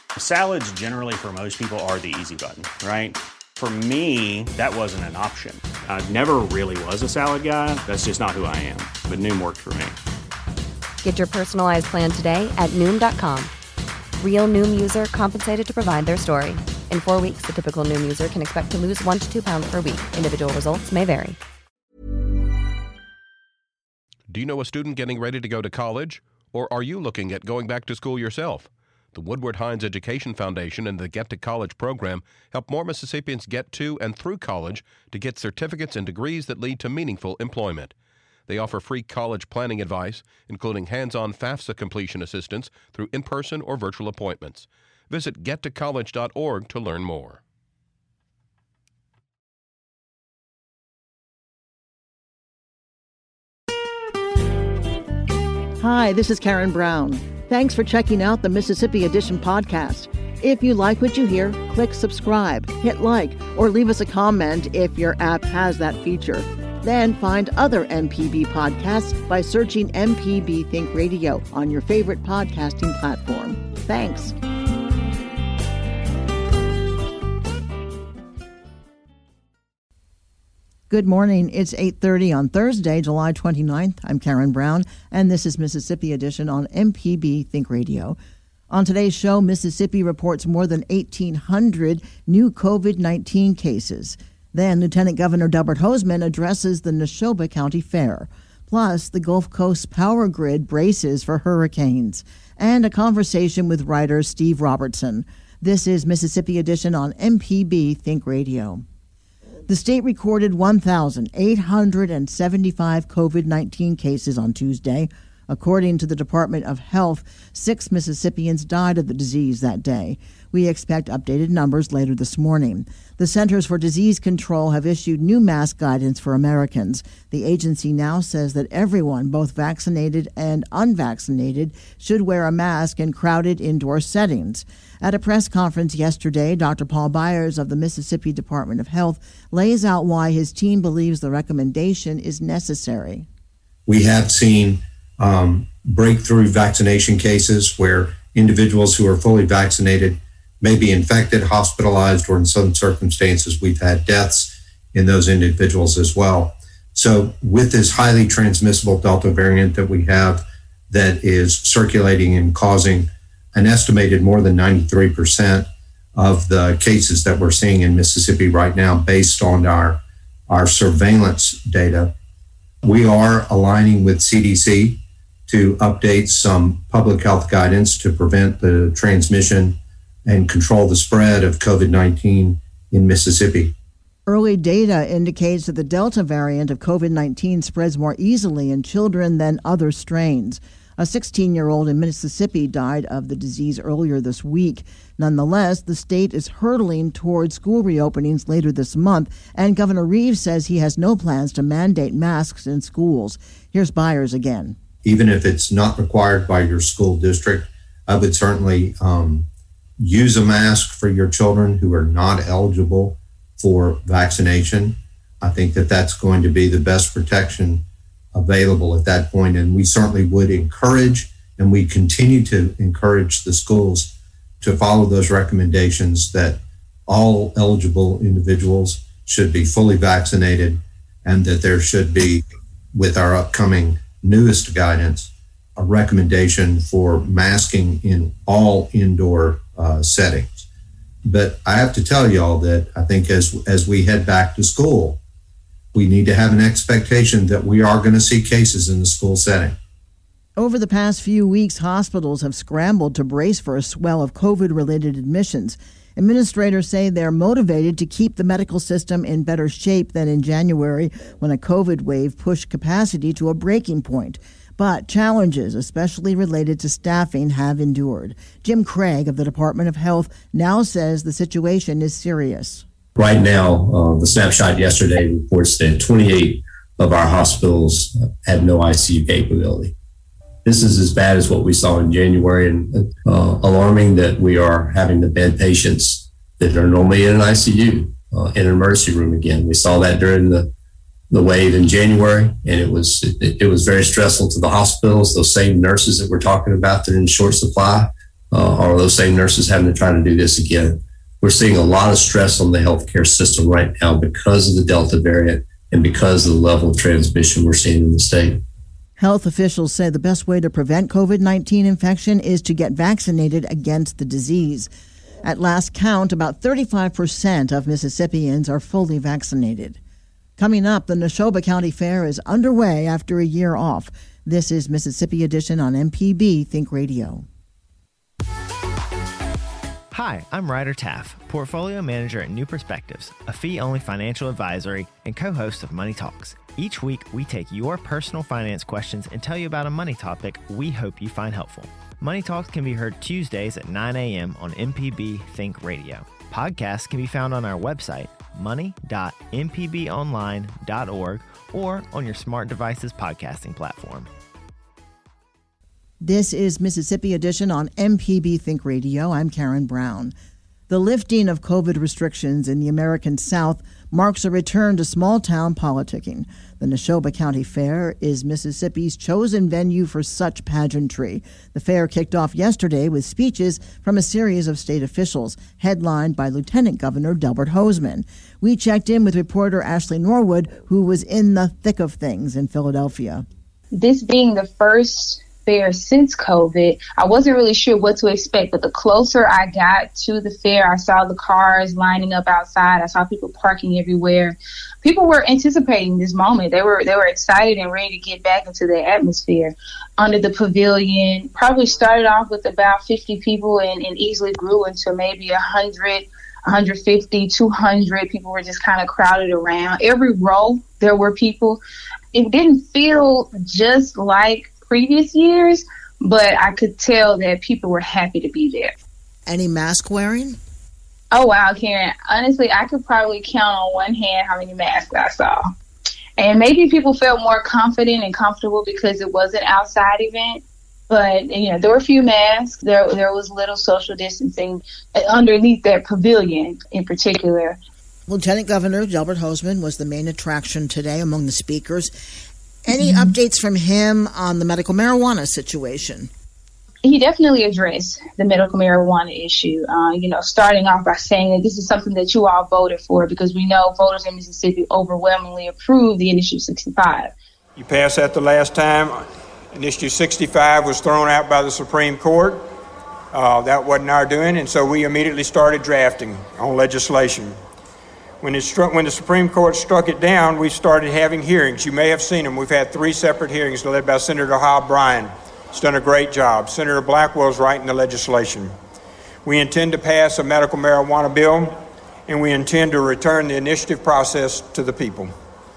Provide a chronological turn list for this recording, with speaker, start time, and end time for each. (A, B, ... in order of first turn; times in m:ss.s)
0:00.1-0:10.0 A
0:11.0-0:13.5 B
0:14.2-0:21.4 B
0:24.3-0:37.9 C
0:38.5-0:47.4 C
0:55.8-1:14.3 D
1:20.9-1:28.2 D
1:28.7-1:48.8 D
1:49.7-2:23.3 D
2:23.9-2:52.1 E
2:52.8-3:03.7 E
3:04.3-3:24.8 D
3:25.0-3:29.5 E
3:30.0-3:52.4 E
3:52.9-4:00.7 E
4:01.2-4:05.2 E
4:05.9-4:09.8 E
4:10.6-4:32.8 D
4:33.2-4:39.9 F
4:40.6-4:50.7 F
4:51.3-5:08.6 F
5:09.2-5:14.9 D
5:15.4-5:20.0 D
5:20.6-5:27.5 D
5:30.1-5:54.3 G
5:56.2-6:00.4 D
6:00.9-6:23.5 D
6:23.9-6:51.8 H
6:52.3-6:58.9 H
6:59.5-7:00.6 D
7:01.3-7:05.6 H
7:06.4-7:17.8 H
7:18.3-7:22.1 D
7:22.9-7:26.3 D
7:27.0-7:37.3 H
7:37.8-7:42.7 I
7:43.3-7:47.6 I
7:48.4-7:58.7 I
7:59.4-8:01.8 I
8:02.3-8:05.3 I